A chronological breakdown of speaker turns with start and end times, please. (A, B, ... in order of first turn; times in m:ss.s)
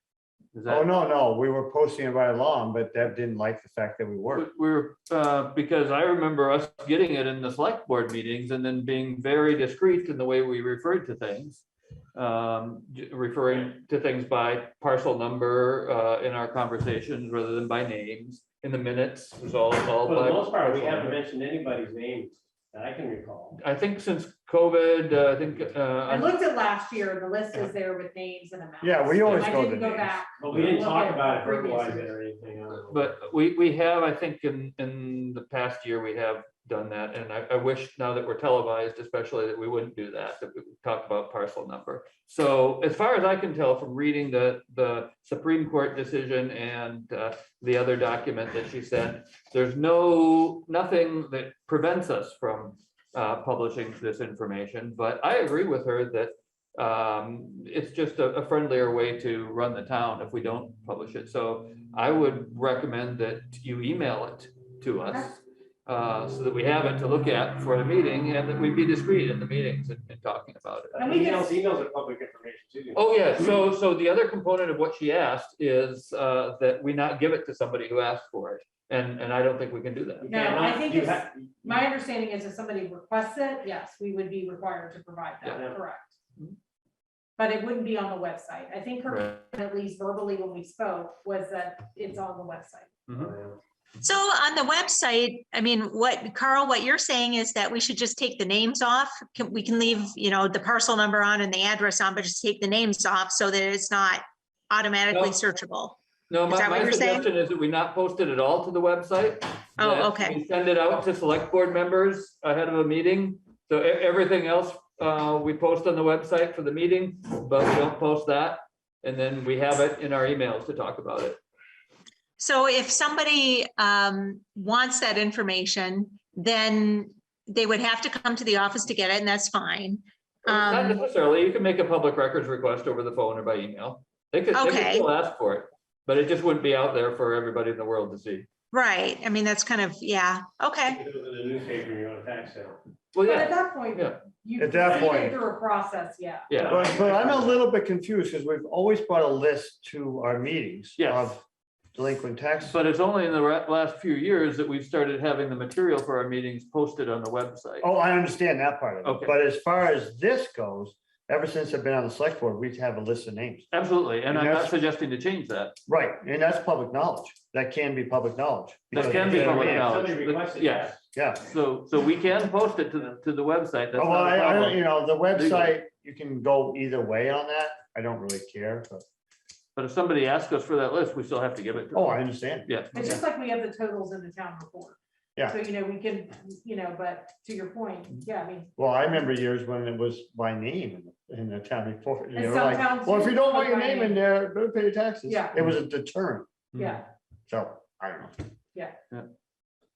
0:00.5-0:00.8 A
0:00.7-0:04.5 B
0:04.3-0:21.2 A
0:20.0-0:23.6 C
0:23.6-0:26.3 A
0:26.0-0:32.1 D
0:28.8-0:30.2 B
0:29.2-0:29.8 A
0:30.4-0:33.0 C
0:32.9-1:11.0 A
1:05.0-1:05.3 D
1:10.9-1:13.0 C
1:11.0-1:11.6 D
1:12.9-1:20.3 A
1:20.2-1:21.8 C
1:20.3-1:26.1 D
1:27.4-1:32.9 D
1:29.1-1:29.4 A
1:33.1-1:33.6 C
1:34.0-1:46.0 E
1:45.1-1:45.4 A
1:46.3-2:01.4 A
1:46.5-1:47.3 E
1:49.8-1:50.4 E
2:02.4-2:11.0 E
2:10.4-2:18.5 A
2:14.5-2:15.1 E
2:18.7-2:21.0 E
2:20.8-2:22.8 C
2:23.1-2:24.2 A
2:23.2-2:26.5 D
2:24.6-2:25.4 B
2:26.5-2:26.8 A
2:26.6-2:27.5 C
2:26.6-2:32.8 B
2:31.0-2:31.3 A
2:32.7-2:37.9 A
2:37.8-2:43.7 B
2:39.0-2:39.3 A
2:43.7-2:45.8 A
2:44.3-2:44.7 B
2:45.9-2:50.1 B
2:48.9-2:55.7 A
2:48.9-2:51.0 C
2:51.1-2:51.4 B
2:53.9-2:59.0 B
2:59.8-3:03.2 A
3:01.9-3:03.2 B
3:02.9-3:08.7 D
3:08.8-3:16.6 B
3:12.3-3:14.2 D
3:15.2-3:15.5 D
3:16.7-3:17.0 A
3:16.7-3:17.0 D
3:17.5-3:18.3 B